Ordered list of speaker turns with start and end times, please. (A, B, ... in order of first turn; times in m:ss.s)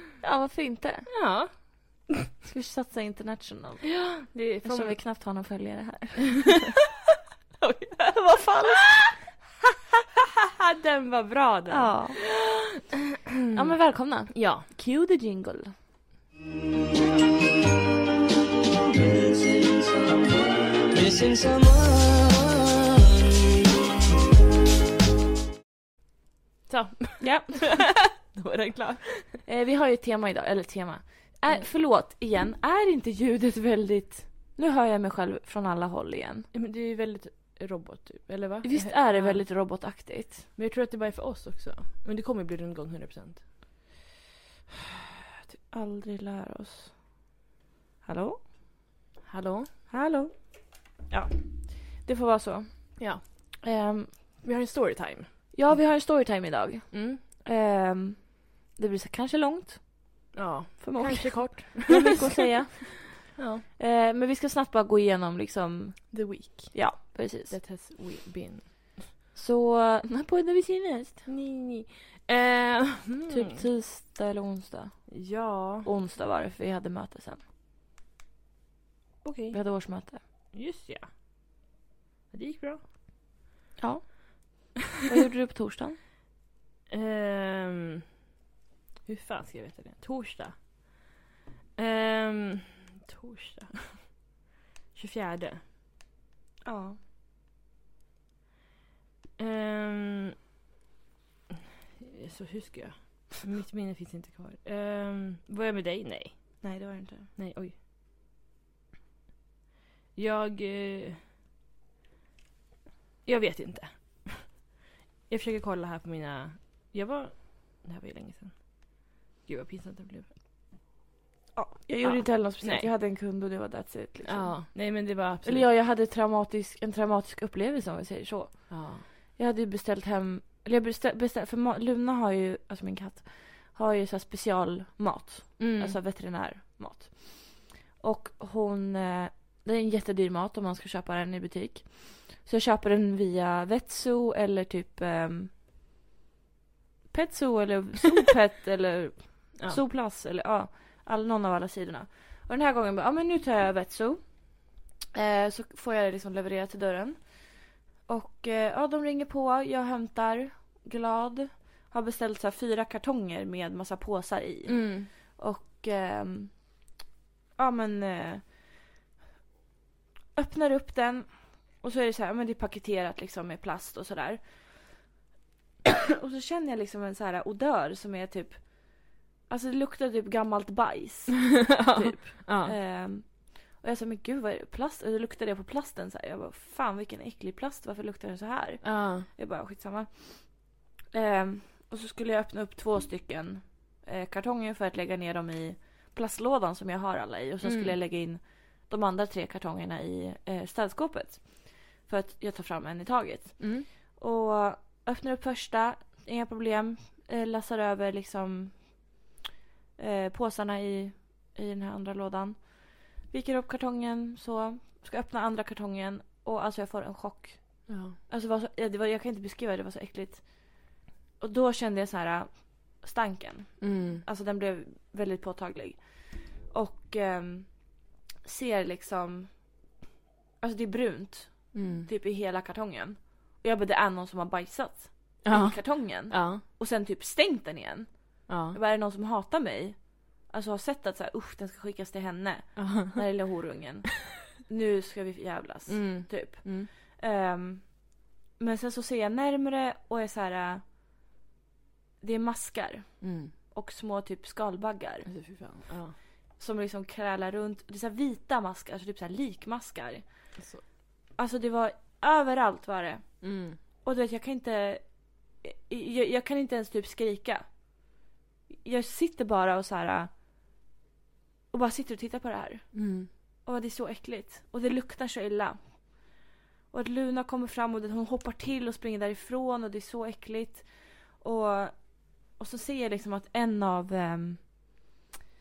0:00.2-0:01.1 A
0:01.1-0:02.0 B
0:02.4-0:06.8 A
0:04.1-0:05.0 B
0:07.6-0:08.1 B
0:08.1-0:09.0 A
0:08.8-0:09.2 B
0:10.6-0:13.7 B
0:11.7-0:12.2 A
0:13.5-0:15.7 A
0:14.3-0:14.6 B
0:18.9-0:23.6 C
0:26.7-0:29.4 B
0:27.2-0:27.8 A
0:29.4-0:36.5 A
0:36.5-0:39.4 B
0:38.6-0:40.4 A
0:40.5-0:43.5 B
0:45.7-0:47.0 A
0:48.0-0:48.4 A
0:49.2-0:49.7 B
0:49.9-0:54.4 A
0:53.0-0:53.2 B
0:54.4-0:55.7 B
0:55.5-1:07.6 A
0:56.9-0:57.2 B
1:00.3-1:02.2 B
1:03.3-1:03.6 B
1:06.1-1:09.1 B
1:09.3-1:11.2 A
1:11.2-1:13.6 B
1:13.3-1:15.3 A
1:15.1-1:15.9 B
1:15.8-1:17.4 A
1:19.2-1:19.6 B
1:19.5-1:20.2 A
1:20.5-1:21.1 B
1:22.3-1:22.8 B
1:23.8-1:26.0 A
1:26.9-1:28.0 B
1:29.0-1:30.6 B
1:31.8-1:34.2 B
1:34.9-1:35.6 B
1:36.6-1:37.0 A
1:39.4-1:40.4 B
1:42.0-1:46.8 B
1:46.6-1:47.3 A
1:47.4-1:47.7 B
1:50.1-1:51.2 B
1:53.2-1:54.6 B
1:55.3-2:00.3 B
2:01.5-2:25.5 A
2:02.0-2:02.9 B
2:04.2-2:05.7 B
2:08.7-2:09.0 B
2:15.6-2:16.0 B
2:27.1-2:46.8 A
2:29.6-2:29.8 B
2:44.7-2:45.1 B
2:47.6-2:48.5 A
2:50.3-2:54.9 A
2:56.2-3:29.2 A
3:01.7-3:02.7 B
3:08.8-3:09.3 B
3:17.6-3:17.9 B
3:23.6-3:23.9 B
3:30.0-3:49.9 A
3:37.9-3:38.2 B
3:43.8-3:44.2 B
3:50.6-4:10.9 A
3:51.7-3:52.1 B
3:55.4-3:56.6 B
3:58.5-3:58.8 B
4:02.8-4:03.2 B
4:05.9-4:06.9 B
4:12.2-4:15.5 A
4:13.2-4:13.5 B
4:15.2-4:16.2 B
4:16.5-4:20.5 A
4:20.6-4:20.8 B
4:21.3-4:28.0 A
4:23.4-4:23.8 B
4:28.7-4:30.3 A
4:31.7-4:36.4 A
4:32.9-4:33.3 B
4:36.9-4:44.7 A